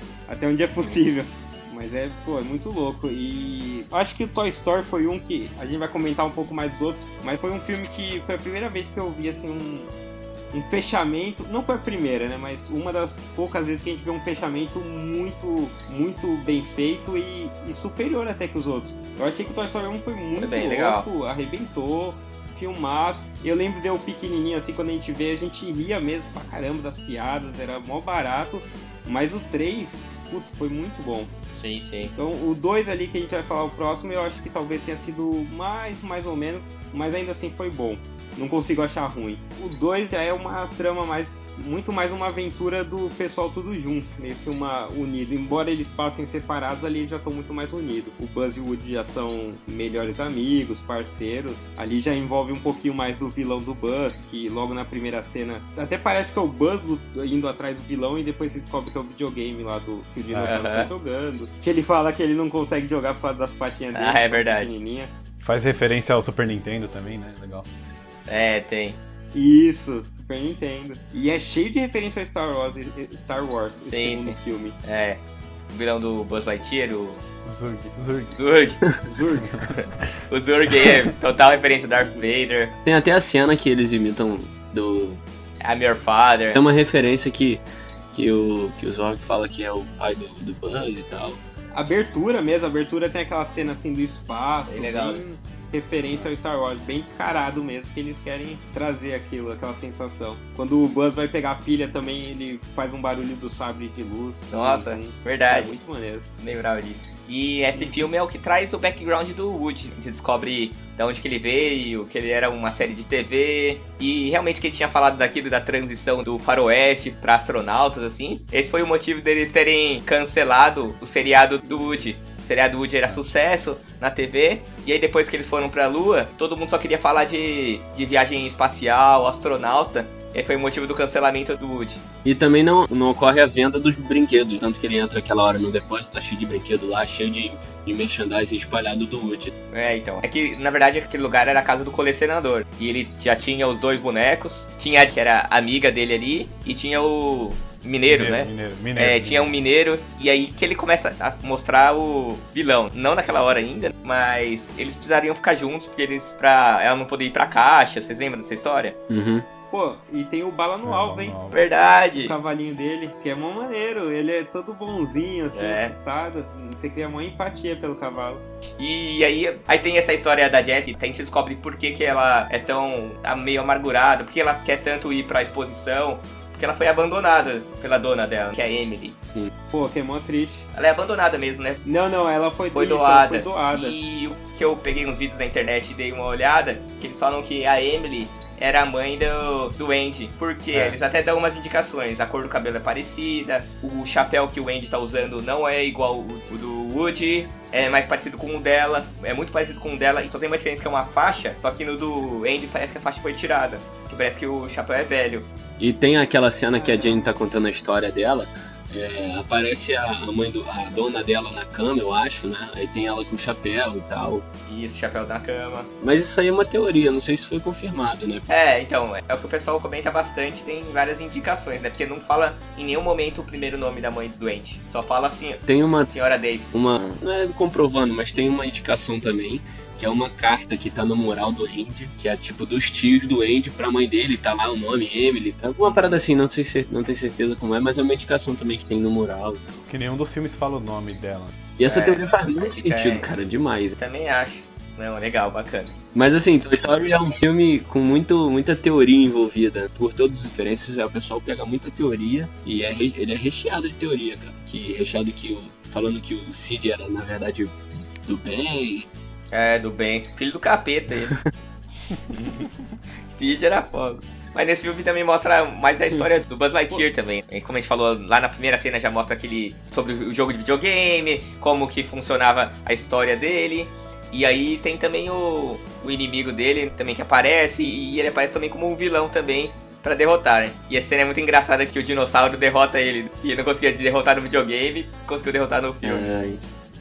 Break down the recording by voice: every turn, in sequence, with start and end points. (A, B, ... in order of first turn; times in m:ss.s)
0:00.3-0:09.9 A
0:10.5-0:31.3 A
0:20.4-0:21.1 B
0:31.6-0:32.1 B
0:32.0-1:05.1 A
1:00.3-1:00.6 C
1:00.5-1:00.9 B
1:03.9-1:04.7 B
1:05.4-1:07.7 C
1:08.3-1:09.0 B
1:09.3-1:14.8 A
1:13.8-1:17.2 B
1:17.4-1:18.3 C
1:18.3-1:18.8 B
1:19.0-1:19.5 A
1:19.7-1:22.8 B
1:22.8-1:25.2 D
1:25.6-1:26.6 B
1:26.5-1:31.4 D
1:31.7-1:46.2 A
1:34.7-1:35.2 B
1:44.5-1:45.7 B
1:46.4-2:12.0 B
1:47.7-1:48.1 A
2:01.6-2:02.1 A
2:12.2-2:19.5 D
2:19.7-2:39.0 B
2:28.1-2:29.5 C
2:39.1-2:39.4 D
2:39.7-2:41.3 A
2:40.8-2:41.6 C
2:41.5-2:42.3 B
2:42.2-2:48.4 A
2:45.5-2:45.9 B
2:48.8-2:59.2 B
2:59.7-3:00.7 A
3:00.7-3:01.8 B
3:01.8-3:04.0 A
3:02.7-3:25.5 B
3:10.7-3:11.0 C
3:25.8-3:34.4 D
3:26.8-3:27.3 A
3:34.6-3:35.9 B
3:36.0-3:38.5 D
3:38.5-3:46.9 B
3:45.7-3:46.1 D
3:46.7-3:59.8 D
3:55.8-3:56.1 B
3:59.8-4:01.6 C
4:01.8-4:04.0 D
4:01.8-4:03.3 B
4:04.0-4:06.0 B
4:06.1-4:19.1 D
4:19.5-4:21.3 B
4:22.3-4:22.6 B
4:23.3-4:46.3 B
4:46.0-4:46.6 D